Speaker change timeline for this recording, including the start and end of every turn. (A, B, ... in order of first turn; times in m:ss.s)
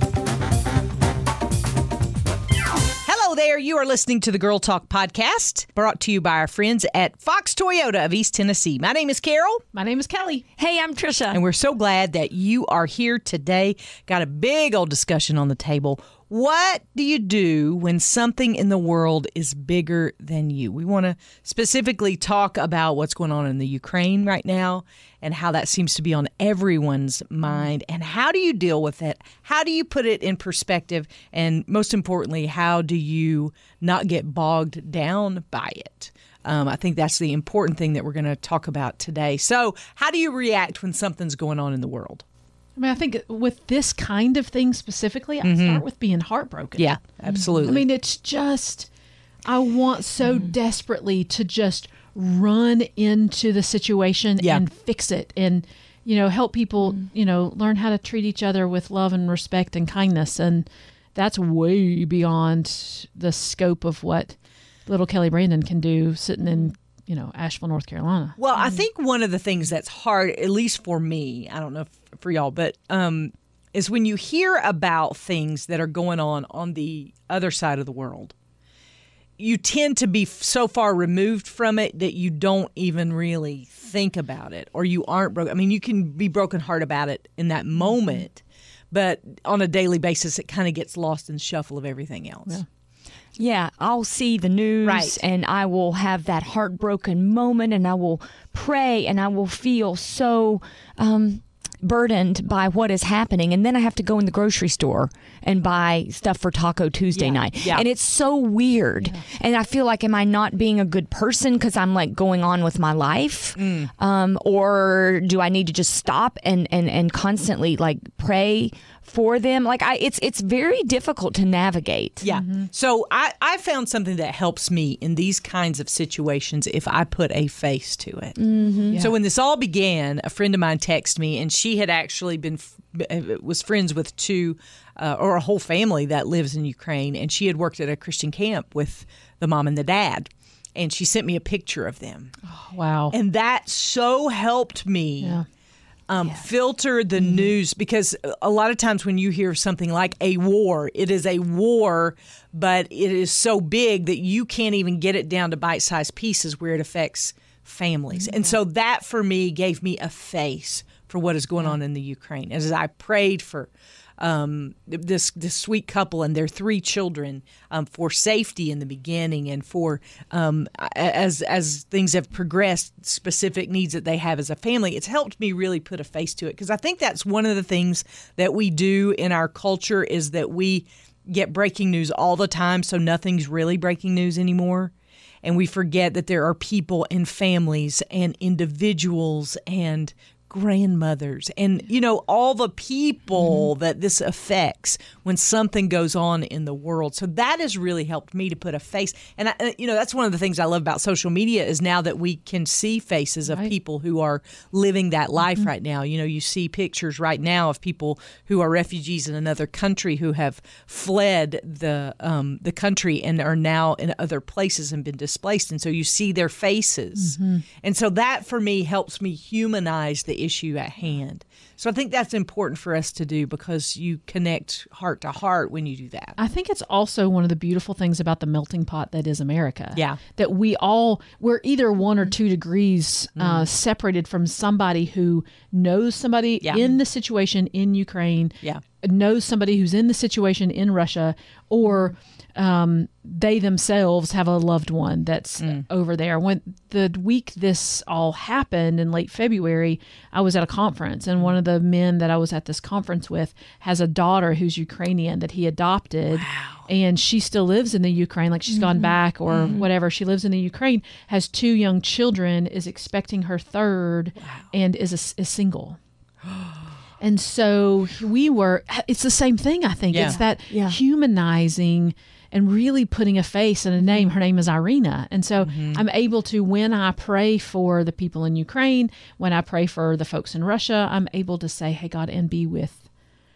0:03.0-0:09.6 A
0:09.7-0:10.4 B
0:10.6-0:11.4 C
0:11.3-0:42.2 A
0:42.8-0:46.9 B
0:45.4-0:45.8 A
0:46.8-0:47.8 A
0:47.5-0:48.9 B
0:49.5-1:08.8 B
1:08.4-1:18.4 A
1:19.4-1:32.6 A
1:33.4-2:02.3 C
1:34.8-1:35.2 A
1:47.1-1:47.8 A
1:53.6-1:53.9 A
2:02.2-2:08.4 A
2:02.3-2:02.7 B
2:08.4-2:09.0 C
2:08.8-2:09.1 B
2:09.0-2:22.3 A
2:22.5-2:23.2 B
2:23.1-2:25.4 A
2:26.1-3:04.9 A
2:27.2-2:27.5 B
3:05.4-3:46.4 A
3:23.5-3:23.7 B
3:37.2-3:37.6 B
3:46.4-4:26.0 B
3:50.0-3:50.2 A
3:53.4-3:53.7 A
3:56.6-3:57.0 A
4:05.6-4:05.8 A
4:16.3-4:16.9 A
4:19.5-4:19.8 A
4:24.4-4:24.6 A
4:27.2-4:43.0 B
4:30.1-4:30.4 A
4:30.2-4:31.0 C
4:35.6-4:36.0 A